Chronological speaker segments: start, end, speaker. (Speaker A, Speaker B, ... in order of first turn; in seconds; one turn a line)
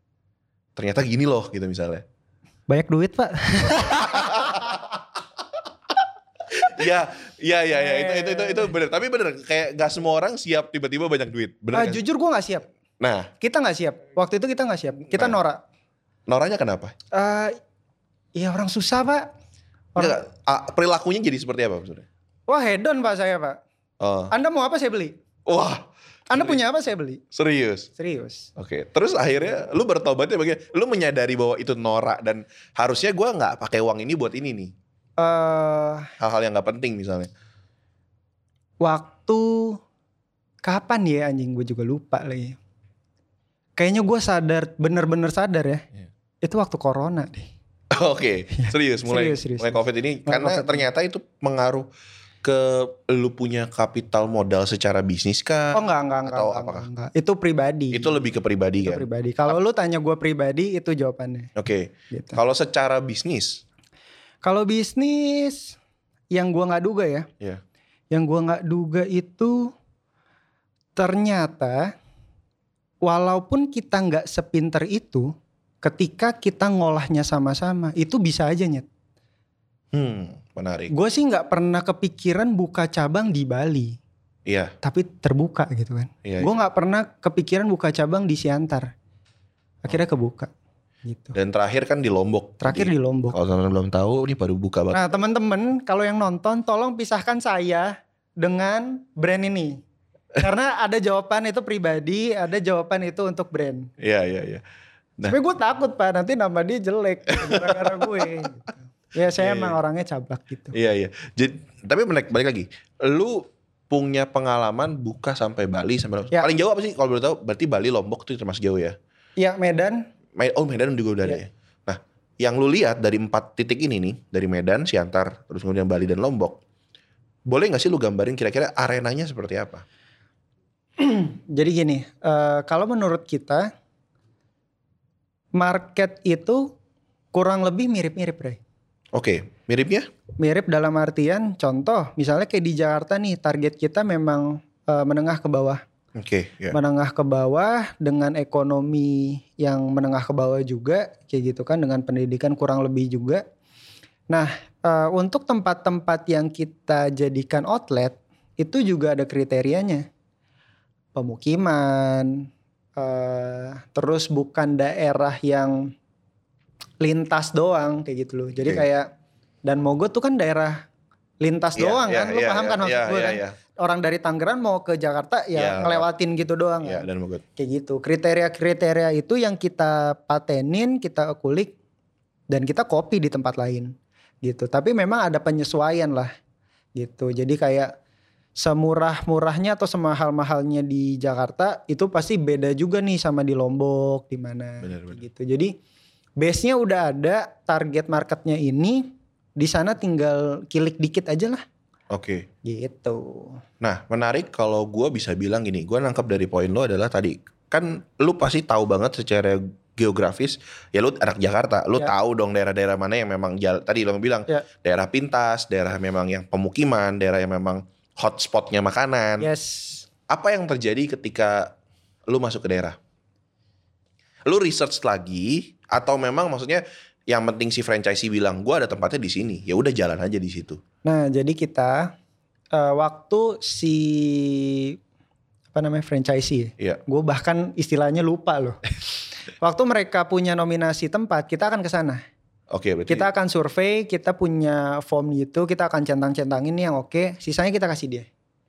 Speaker A: 0.8-2.0
Speaker B: 2.7-4.6
Speaker A: 4.0-4.8
Speaker A: 6.6-12.0
Speaker B: 7.8-8.8
Speaker B: 11.7-12.7
Speaker A: 13.0-13.3
Speaker B: 13.4-15.6
Speaker A: 15.1-15.4
Speaker A: 16.3-16.9
Speaker B: 17.1-17.6
Speaker B: 18.4-19.3
Speaker A: 20.0-22.1
Speaker B: 22.5-23.6
Speaker A: 24.0-24.3
Speaker B: 24.3-25.2
Speaker A: 25.5-26.6
Speaker B: 26.3-27.2
Speaker A: 27.3-27.9
Speaker B: 28.0-28.5
Speaker A: 28.6-34.7
Speaker B: 35.2-36.1
Speaker A: 36.2-37.3
Speaker B: 38.8-39.8
Speaker B: 40.6-42.6
Speaker B: 43.8-45.8
Speaker B: 46.4-47.5
Speaker A: 47.9-51.9
Speaker B: 48.5-50.8
Speaker A: 52.4-56.9
Speaker B: 55.7-58.2
Speaker A: 57.9-59.5
Speaker B: 58.8-61.5
Speaker A: 61.6-63.6
Speaker B: 62.1-62.4
Speaker B: 64.4-65.8
Speaker B: 66.3-67.3
Speaker B: 68.1-69.7
Speaker B: 71.0-71.9
Speaker B: 73.0-78.9
Speaker A: 79.9-80.9
Speaker B: 80.9-84.0
Speaker A: 84.5-84.7
Speaker B: 84.8-88.9
Speaker A: 86.2-86.5
Speaker B: 89.8-90.5
Speaker B: 91.0-91.4
Speaker A: 91.3-95.0
Speaker B: 92.6-93.4
Speaker B: 94.9-99.8
Speaker B: 100.3-103.9
Speaker A: 104.0-104.6
Speaker B: 105.3-110.8
Speaker A: 107.3-108.4
Speaker A: 109.4-109.8
Speaker A: 110.7-119.0
Speaker B: 119.4-120.0
Speaker A: 120.4-126.6
Speaker A: 127.5-129.8
Speaker B: 131.0-133.7
Speaker B: 135.6-136.7
Speaker B: 137.3-138.6
Speaker A: 139.1-140.1
Speaker B: 140.4-145.8
Speaker A: 146.2-146.8
Speaker B: 146.7-153.4
Speaker B: 154.3-160.1
Speaker B: 161.2-165.9
Speaker B: 167.0-169.1
Speaker B: 169.7-170.9
Speaker B: 171.4-181.8
Speaker A: 171.8-173.6
Speaker A: 175.6-176.1
Speaker A: 176.8-177.4
Speaker B: 182.5-186.3
Speaker B: 187.0-187.9
Speaker B: 188.6-195.7
Speaker A: 194.8-195.2
Speaker B: 196.4-201.6
Speaker A: 202.1-202.5
Speaker B: 202.6-203.6
Speaker A: 203.8-219.5
Speaker B: 219.4-220.1
Speaker A: 220.3-221.8
Speaker A: 222.3-223.0
Speaker A: 224.5-230.8
Speaker B: 231.0-232.1
Speaker B: 232.7-235.0
Speaker B: 235.7-238.8
Speaker B: 239.6-242.2
Speaker A: 242.7-243.3
Speaker B: 243.1-248.3